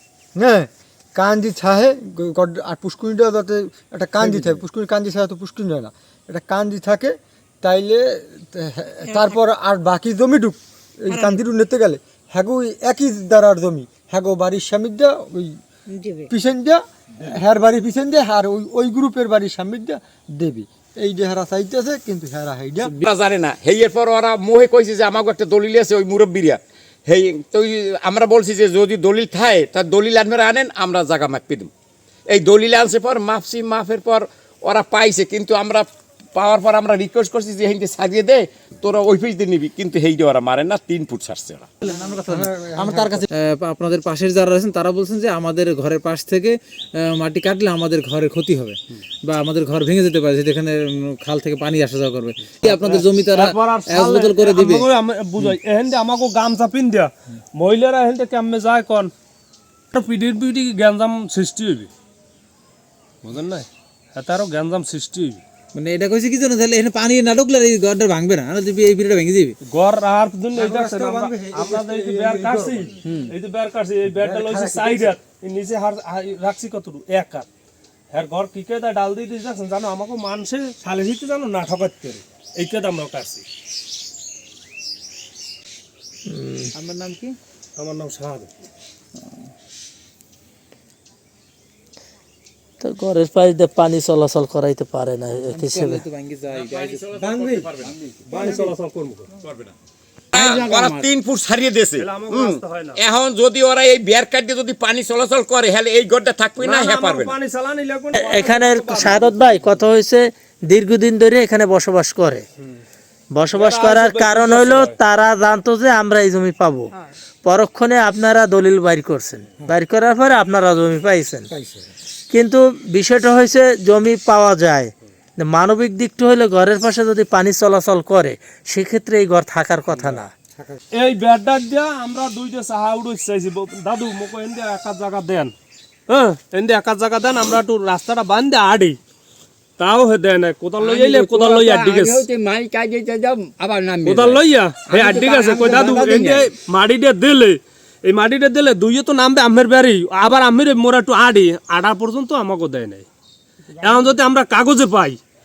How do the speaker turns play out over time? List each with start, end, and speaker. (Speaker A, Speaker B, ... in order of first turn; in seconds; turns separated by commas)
Speaker A: 0.4-15.6, Speaker A: 16.3-22.9, Speaker B: 22.9-31.7, Speaker B: 32.3-41.7, Speaker C: 41.9-54.9, Speaker A: 42.3-43.3, Speaker D: 52.6-59.1, Speaker D: 59.9-61.9, Speaker D: 63.2-65.4, Speaker C: 65.7-69.6, Speaker D: 69.7-77.5, Speaker A: 70.5-73.3, Speaker A: 74.1-75.2, Speaker D: 78.1-83.5, Speaker E: 86.3-86.7, Speaker C: 86.8-87.4, Speaker D: 87.8-88.5, Speaker C: 89.2-89.5, Speaker E: 92.8-96.1, Speaker C: 95.5-97.1, Speaker B: 96.5-98.7, Speaker D: 97.3-99.3, Speaker B: 99.4-99.7, Speaker B: 100.3-107.4, Speaker D: 102.0-103.0, Speaker D: 106.6-109.4, Speaker E: 108.2-112.5, Speaker E: 113.3-116.9, Speaker D: 113.5-115.0, Speaker E: 117.5-121.5, Speaker A: 121.5-121.9, Speaker E: 122.3-130.3, Speaker A: 130.1-130.8, Speaker D: 130.9-135.5, Speaker D: 136.1-139.0, Speaker D: 139.8-142.3, Speaker F: 140.8-146.5, Speaker D: 144.0-153.1, Speaker D: 153.8-155.2